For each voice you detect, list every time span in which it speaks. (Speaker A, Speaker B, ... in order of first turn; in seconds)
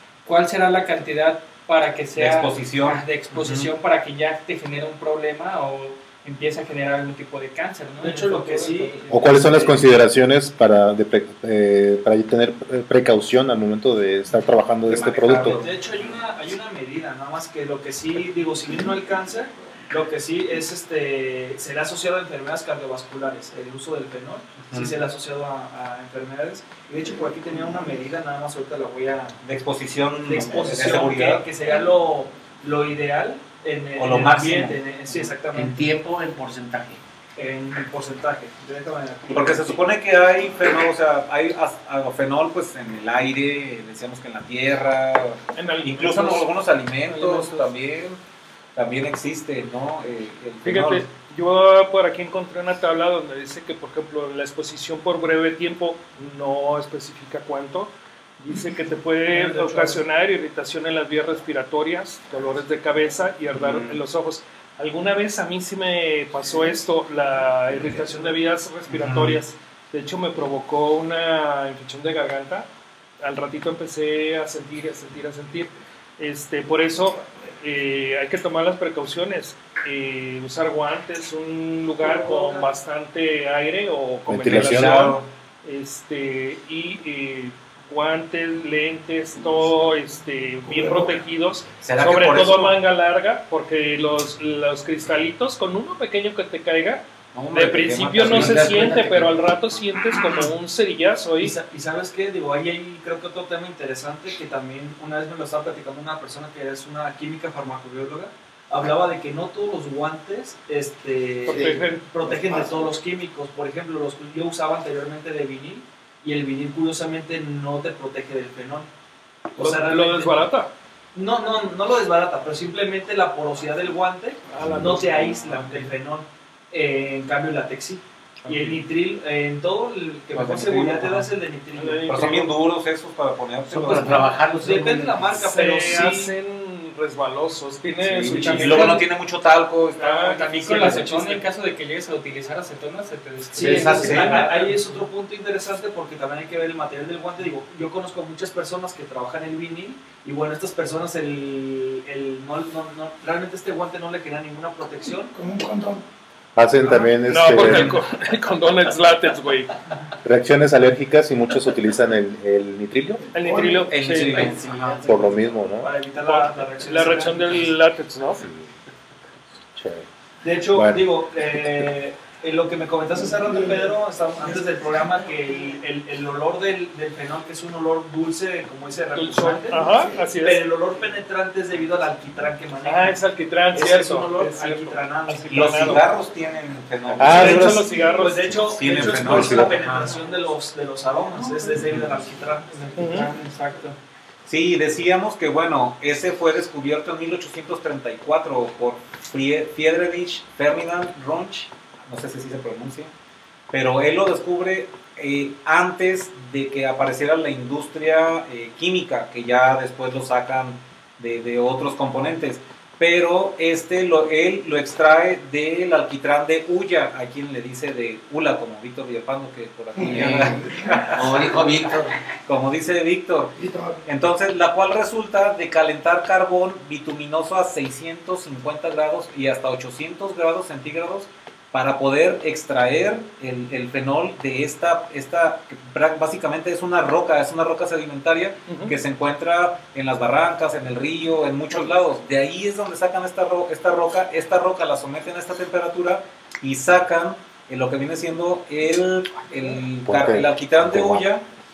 Speaker A: 0.2-9.7, 138.3-139.0, 140.2-144.9, 191.3-191.9, 192.7-194.0
Speaker B: 2.1-3.7, 14.9-15.8, 24.7-25.0, 29.4-31.5, 34.0-34.8, 39.3-48.2, 48.7-51.1, 63.5-64.0, 68.9-69.4, 84.5-85.3, 91.8-92.8, 97.3-99.3, 128.5-128.8, 130.3-131.3, 132.1-134.3, 138.0-141.1, 143.6-144.5, 157.5-158.0, 163.9-164.9, 185.5-187.8, 188.6-190.0, 194.4-203.1, 203.7-221.2, 222.4-251.4
Speaker C: 8.0-9.7, 14.9-29.4, 30.1-35.9, 37.4-39.8, 59.3-60.0, 82.0-82.7, 101.4-118.9, 119.5-120.4, 121.1-132.2, 134.4-136.3, 143.5-155.3, 165.8-167.7, 170.4-183.2, 183.7-186.0, 187.3-192.9
Speaker D: 9.1-15.6, 84.3-85.2, 156.5-158.0, 160.2-163.2, 165.1-165.9, 168.4-168.7, 169.7-170.1, 170.7-171.1, 187.2-187.8, 188.9-189.8, 250.0-251.2
Speaker E: 35.5-37.0, 98.3-99.2, 133.7-135.3, 164.1-165.6, 220.0-220.6, 221.1-222.1
Speaker F: 45.5-46.5, 47.1-47.6, 50.6-72.7, 73.2-101.5, 111.5-112.0, 119.6-120.7, 124.5-125.6, 131.7-132.5, 135.4-139.0, 140.0-141.4, 156.9-159.7, 163.3-164.5, 166.2-168.4, 179.1-180.6, 182.8-186.0, 187.3-188.6, 193.0-193.3, 238.7-238.9
Speaker G: 90.7-91.1, 112.2-112.9, 155.3-156.0, 163.3-163.9, 173.3-173.9, 179.8-180.2, 220.0-221.4, 223.6-224.0